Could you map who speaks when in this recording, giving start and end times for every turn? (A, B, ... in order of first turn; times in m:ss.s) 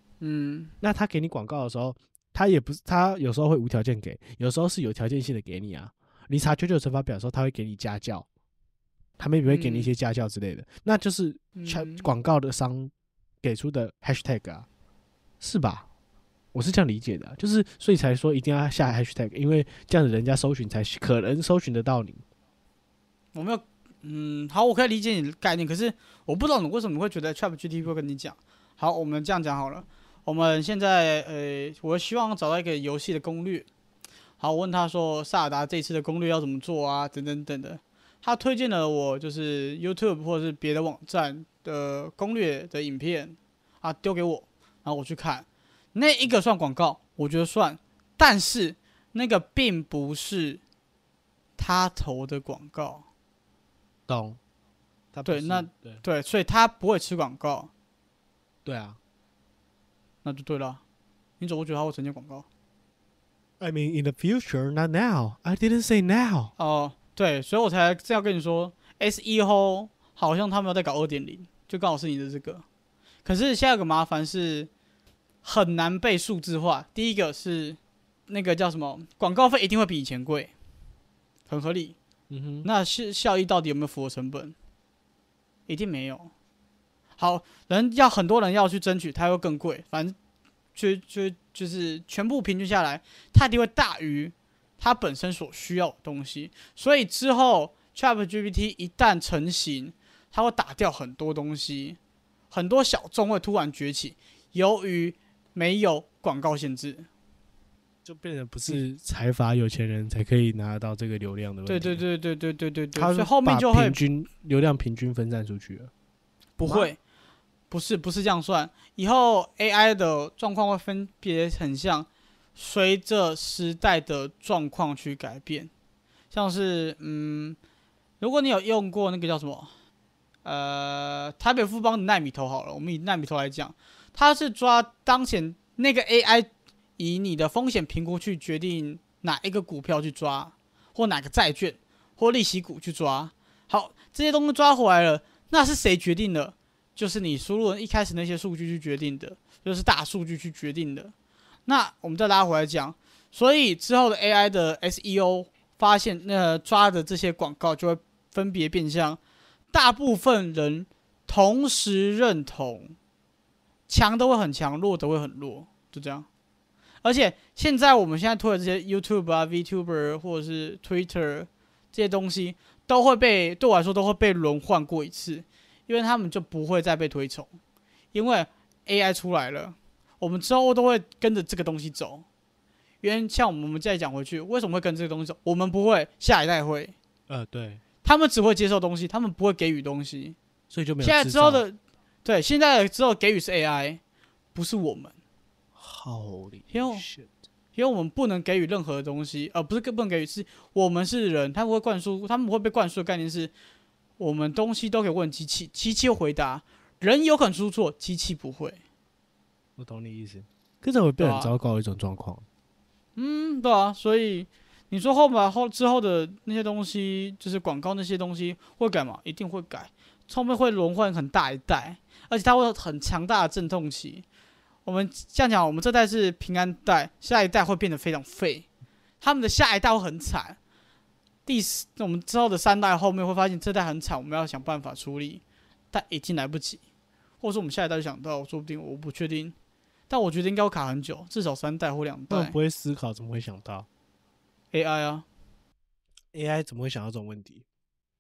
0:00.2-0:00.7 A
0:00.8-0:08.3 B
0:09.2-0:14.7 B
0:09.5-0:09.9 A
0:11.6-0:12.1 A
0:15.4-0:15.9 B
0:16.5-0:22.2 B
0:23.3-0:33.7 A
0:34.4-0:50.6 A
0:51.6-0:53.0 A
0:54.1-0:54.4 B
0:55.1-0:56.0 B
0:55.3-0:57.7 A
0:58.6-0:59.0 B
1:00.2-1:00.8 A
1:01.4-1:02.5 A
1:03.6-1:06.5 B
1:06.6-1:12.6 A
1:13.2-1:14.7 A
1:15.4-1:20.5 A
1:21.5-1:22.0 A
1:22.3-1:22.7 B
1:22.6-1:24.6 A
1:25.7-1:26.3 A
1:27.2-1:30.2 A
1:30.8-1:42.0 A
1:42.5-1:47.1 A
1:48.0-1:52.0 B
1:51.7-1:54.0 A
1:53.0-1:55.9 B
1:56.6-1:57.0 A
1:56.6-1:56.9 B
1:57.7-2:05.7 A
2:06.3-2:07.6 A
2:08.2-2:09.7 A
2:10.4-2:31.1 A
2:31.7-2:39.2 A
2:39.7-2:43.0 A
2:43.9-2:46.3 A
2:47.0-2:57.5 A
2:58.1-3:02.2 A
3:03.0-3:07.0 A
3:07.3-3:07.8 B
3:08.0-3:10.4 A
3:10.7-3:11.6 B
3:11.0-3:14.0 A
3:14.5-3:15.2 A
3:15.8-3:17.3 B
3:16.7-3:17.1 A
3:17.8-3:23.5 A
3:24.2-3:28.8 A
3:29.8-3:32.4 B
3:31.2-3:31.5 A
3:33.2-3:44.2 A
3:44.9-3:48.7 A
3:49.2-3:50.6 A
3:51.5-3:56.8 A
3:57.4-3:59.6 A
4:00.1-4:02.6 A
4:02.3-4:03.9 B
4:04.7-4:05.2 A
4:06.3-4:07.6 B